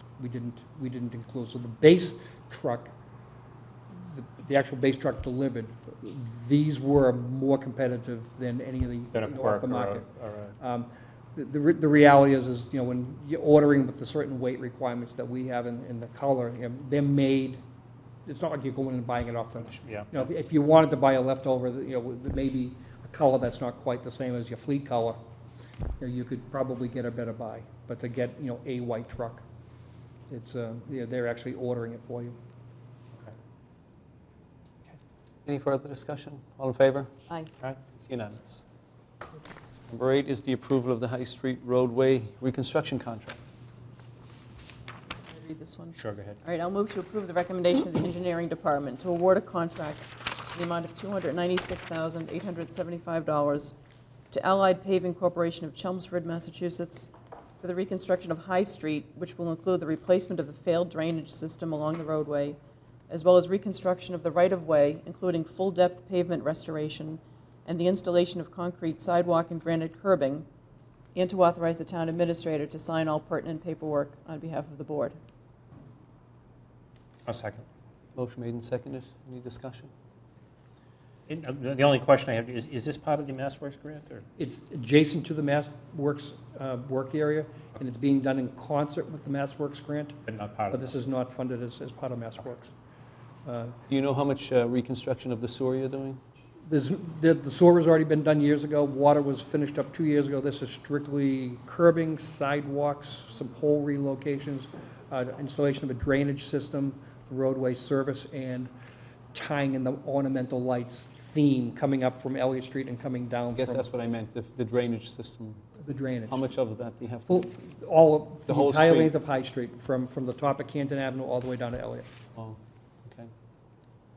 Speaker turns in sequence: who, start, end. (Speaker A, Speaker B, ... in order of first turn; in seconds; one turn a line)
Speaker A: 0.2-2.9
Speaker A: 3.9-17.6
Speaker B: 9.1-10.6
Speaker A: 18.3-25.2
Speaker B: 19.7-20.1
Speaker A: 26.0-29.4
Speaker A: 30.3-32.4
Speaker C: 35.5-37.1
Speaker C: 38.1-38.6
Speaker C: 39.9-43.4
Speaker D: 45.3-53.8
Speaker B: 46.0-46.4
Speaker D: 54.3-62.6
Speaker D: 63.1-70.5
Speaker D: 71.2-75.2
Speaker B: 77.3-77.7
Speaker C: 78.2-79.9
Speaker B: 81.3-84.2
Speaker A: 84.4-92.7
Speaker B: 90.3-90.9
Speaker A: 93.5-93.8
Speaker C: 93.9-96.2
Speaker A: 96.7-108.7
Speaker A: 109.3-113.9
Speaker C: 113.5-115.6
Speaker A: 115.8-116.5
Speaker C: 116.3-117.5
Speaker A: 117.3-122.1
Speaker C: 118.5-119.2
Speaker C: 122.3-123.3